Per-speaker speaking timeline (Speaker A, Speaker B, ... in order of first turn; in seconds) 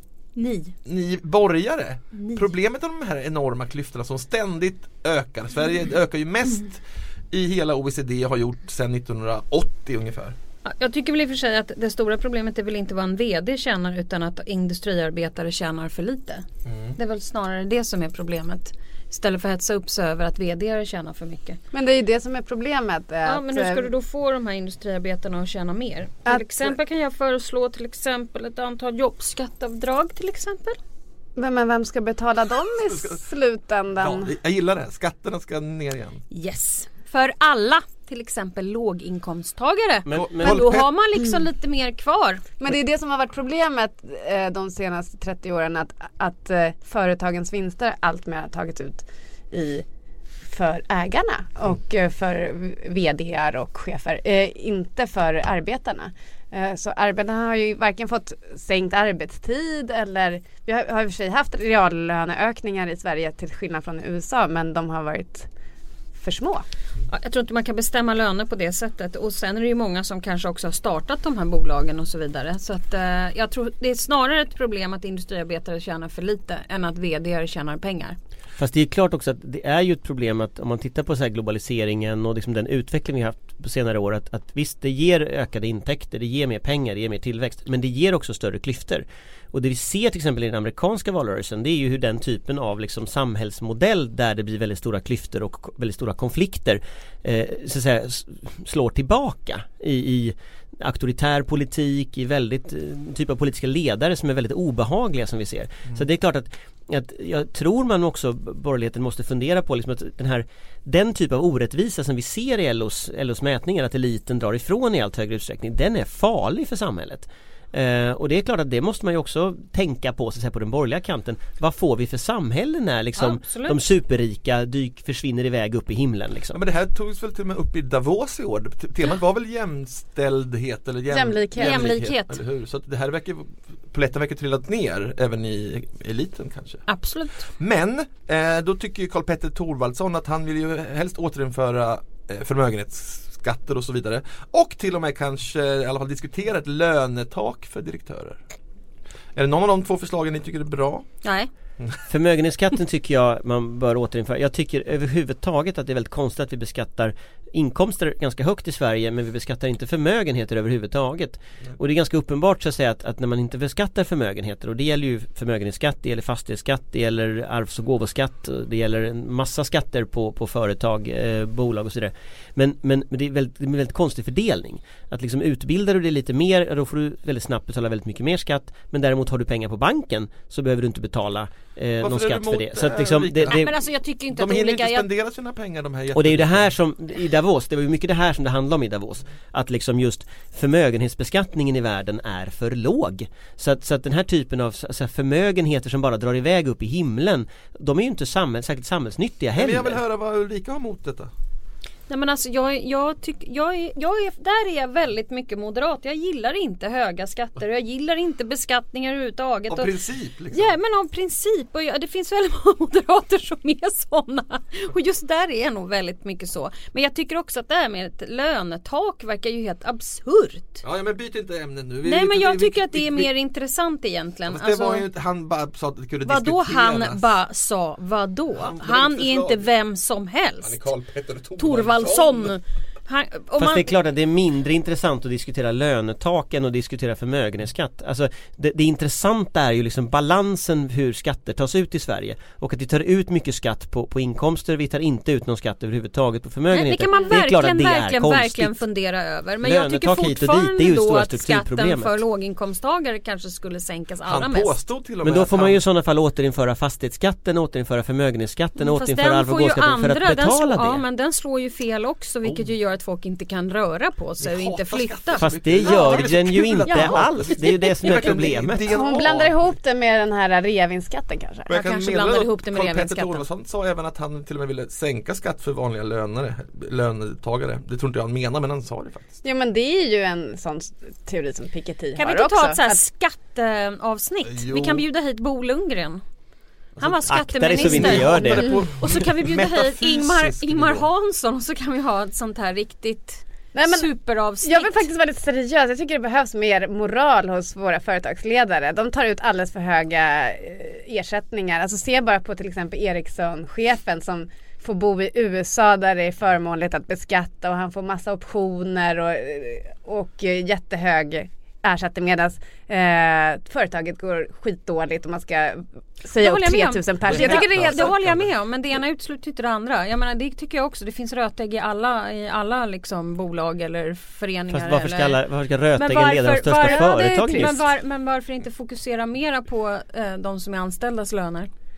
Speaker A: 0.3-0.7, 2.2-2.4, 10.6-16.4, 16.9-21.6, 23.2-30.8, 36.3-42.4, 67.1-78.2, 123.2-123.8, 131.6-132.4, 136.9-137.5, 151.2-151.5, 183.5-185.1, 202.1-209.9, 210.5-220.8, 222.0-225.1, 226.2-230.8, 231.6-233.9, 246.7-254.8, 258.8-266.3, 266.8-267.2, 271.7-273.4, 282.1-286.2, 287.0-295.1, 316.4-325.4, 325.9-331.7
Speaker B: 0.8-10.3, 16.7-16.9, 32.9-33.2, 34.0-36.2, 40.1-40.9, 126.5-136.8, 137.6-148.4, 149.3-151.1, 182.0-183.7, 184.3-186.7, 199.6-201.3, 209.7-210.8, 220.8-223.3, 224.5-227.3, 228.5-229.7, 230.6-232.5, 254.3-255.8, 264.4-269.7, 271.7-279.4, 284.4-285.0, 287.0-291.1, 317.2-318.5
Speaker C: 21.7-23.9, 26.2-26.7, 31.4-34.3, 42.6-49.8, 50.5-65.5, 66.2-66.6, 131.1-131.9, 268.9-271.7, 279.4-283.0, 293.7-294.1, 294.6-318.1, 326.8-327.8
Speaker D: 40.1-40.7, 78.6-126.6, 152.1-183.7, 186.1-200.0, 233.6-248.8, 249.6-252.2, 255.2-261.0, 265.4-268.9, 287.3-288.8, 324.7-327.8